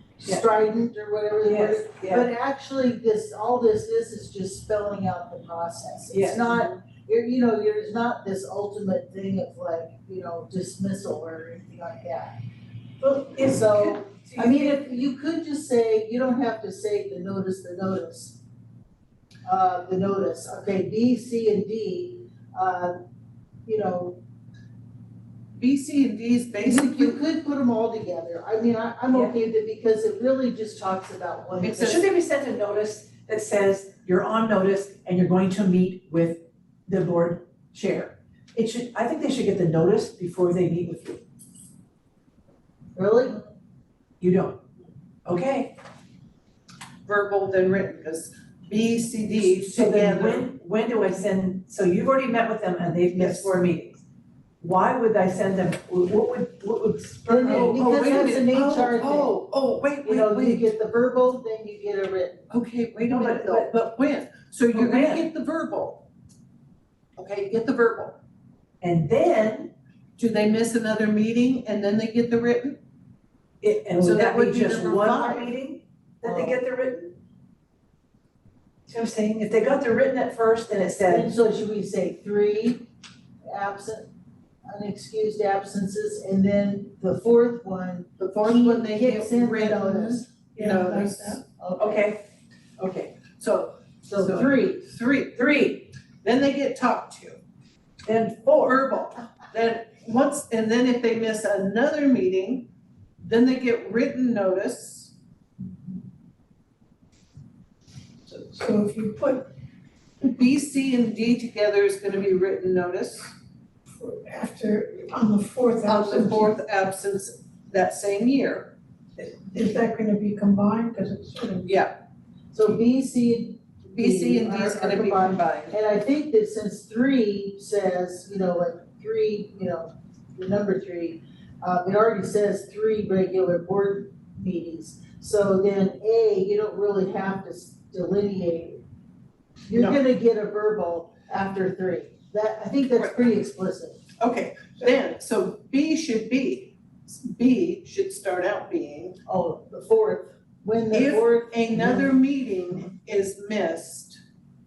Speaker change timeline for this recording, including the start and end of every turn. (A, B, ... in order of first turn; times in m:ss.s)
0:00.2-0:12.4 A
0:01.4-0:02.3 B
0:06.1-0:06.8 B
0:13.0-0:14.9 B
0:13.4-0:18.4 A
0:19.5-0:23.0 A
0:23.6-0:24.2 A
0:25.6-0:27.2 C
0:26.6-0:32.1 A
0:31.6-0:41.2 B
0:43.0-0:43.4 A
0:44.2-0:44.6 B
0:45.3-0:45.8 B
0:47.1-0:50.5 C
0:49.4-0:54.0 B
0:53.1-0:53.5 C
0:54.6-0:58.4 B
0:57.3-0:59.3 A
0:57.4-1:00.6 C
1:00.0-1:02.4 A
1:02.5-1:06.0 C
1:03.0-1:03.7 B
1:04.7-1:05.3 B
1:07.2-1:08.2 C
1:08.8-1:09.7 B
1:10.2-1:12.8 C
1:13.6-1:17.1 B
1:14.0-1:15.5 C
1:18.9-1:21.4 B
1:21.1-1:22.9 A
1:23.5-1:24.1 A
1:24.7-1:30.3 A
1:28.2-1:31.4 C
1:30.6-1:31.4 D
1:31.6-1:32.1 A
1:31.8-1:32.2 B
1:32.8-1:33.7 B
1:33.3-1:35.5 C
1:34.1-1:34.6 A
1:35.4-1:35.9 B
1:36.2-1:37.4 C
1:38.1-1:38.8 B
1:38.5-1:42.7 C
1:43.2-1:45.1 C
1:48.3-1:49.5 D
1:50.2-1:53.3 C
1:54.0-1:56.6 D
1:55.9-1:58.7 C
1:59.2-2:01.7 D
2:01.7-2:02.0 C
2:02.5-2:18.8 A
2:03.9-2:05.8 C
2:19.7-2:24.0 A
2:19.7-2:20.0 C
2:24.2-2:29.2 C
2:29.3-2:32.1 A
2:30.9-2:34.2 C